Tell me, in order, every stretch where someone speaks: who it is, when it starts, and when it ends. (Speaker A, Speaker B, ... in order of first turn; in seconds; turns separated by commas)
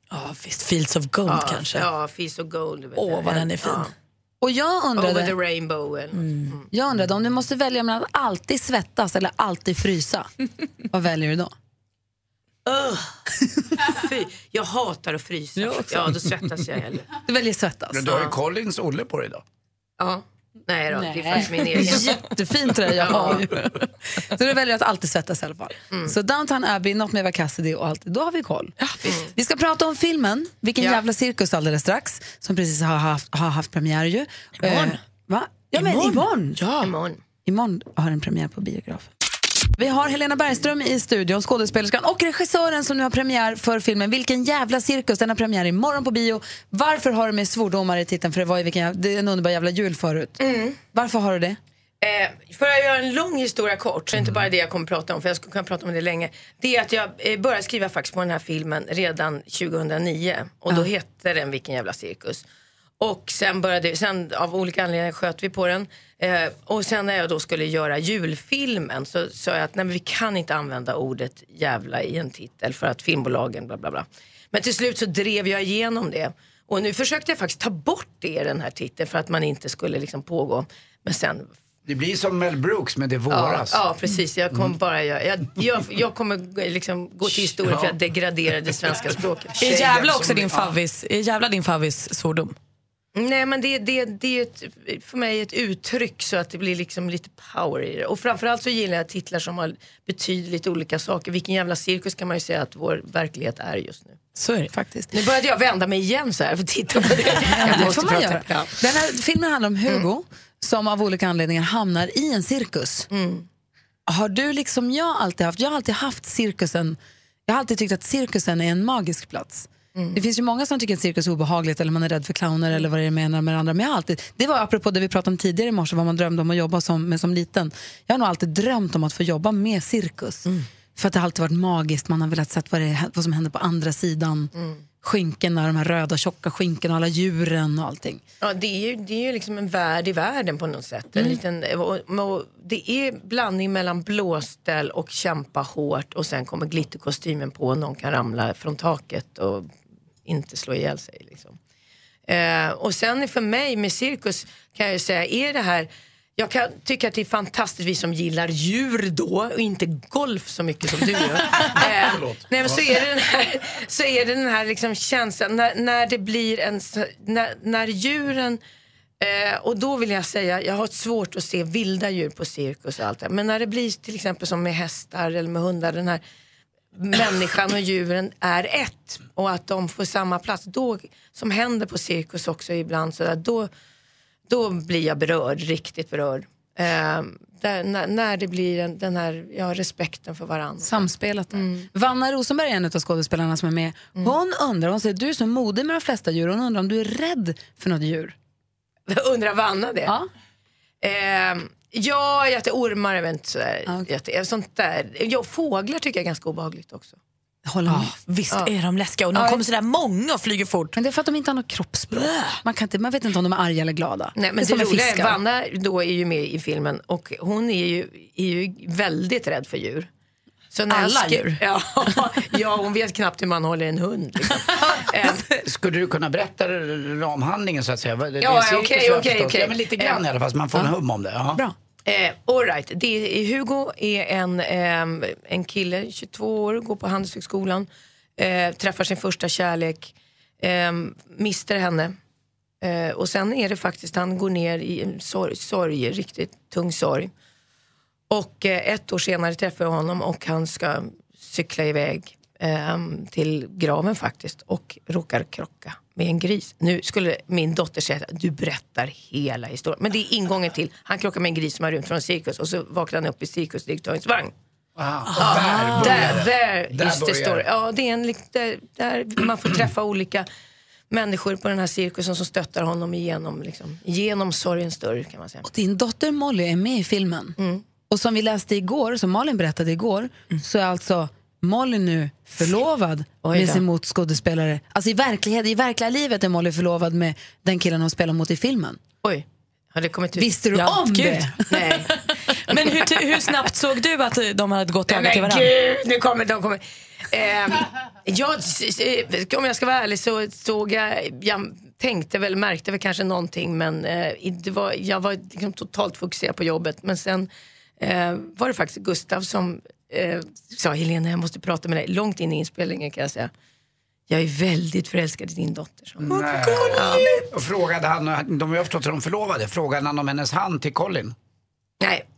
Speaker A: 0.1-1.9, Speaker B: 1.3-3.9, Speaker A: 3.0-3.9, Speaker C: 4.4-5.3, Speaker B: 5.0-6.7, Speaker A: 6.2-6.5, Speaker C: 6.7-10.3, Speaker C: 10.9-11.5, Speaker B: 12.7-13.2, Speaker B: 13.7-17.1, Speaker C: 17.2-18.1, Speaker D: 17.9-19.4, Speaker B: 18.1-18.3, Speaker B: 20.0-22.3, Speaker C: 20.9-28.7, Speaker B: 22.9-23.5, Speaker C: 29.2-36.6, Speaker A: 34.6-34.9, Speaker A: 35.7-36.9, Speaker B: 36.8-37.2, Speaker C: 37.4-39.1, Speaker C: 39.8-51.6, Speaker B: 50.4-50.8, Speaker B: 52.0-62.4, Speaker B: 63.0-81.5, Speaker D: 81.8-83.8, Speaker B: 83.3-89.7, Speaker D: 87.3-88.0, Speaker D: 89.5-90.7, Speaker A: 89.6-92.5, Speaker B: 93.1-104.2, Speaker A: 104.3-104.7, Speaker C: 104.7-105.1, Speaker B: 105.1-108.8, Speaker C: 107.5-113.1, Speaker B: 113.1-113.5, Speaker C: 114.1-138.2, Speaker B: 119.9-120.2, Speaker B: 134.5-134.8, Speaker B: 138.4-149.7, Speaker B: 150.2-151.6, Speaker B: 152.3-168.6, Speaker D: 162.1-162.4, Speaker B: 169.2-176.2, Speaker B: 176.9-183.7, Speaker B: 184.5-191.9, Speaker C: 190.8-198.3, Speaker B: 199.1-200.1, Speaker B: 201.0-207.2, Speaker C: 207.7-208.1, Speaker A: 207.9-210.9, Speaker C: 209.3-209.6, Speaker C: 210.9-215.4, Speaker A: 212.1-212.6, Speaker B: 214.3-220.1, Speaker B: 220.7-225.5, Speaker C: 220.9-221.6, Speaker D: 225.6-231.6, Speaker B: 228.4-230.2, Speaker B: 232.1-242.1, Speaker B: 242.8-247.3, Speaker B: 248.3-264.5, Speaker D: 264.9-267.6, Speaker A: 265.4-266.2, Speaker B: 265.4-270.5, Speaker B: 271.1-275.6, Speaker C: 275.6-277.6, Speaker B: 277.6-277.8, Speaker C: 278.1-289.0, Speaker B: 283.4-283.8, Speaker B: 289.2-290.9, Speaker C: 290.4-291.7, Speaker A: 290.8-291.5, Speaker B: 291.7-292.1, Speaker A: 292.1-295.7, Speaker B: 295.1-313.5, Speaker B: 314.3-317.4, Speaker D: 316.2-321.3, Speaker B: 322.0-322.2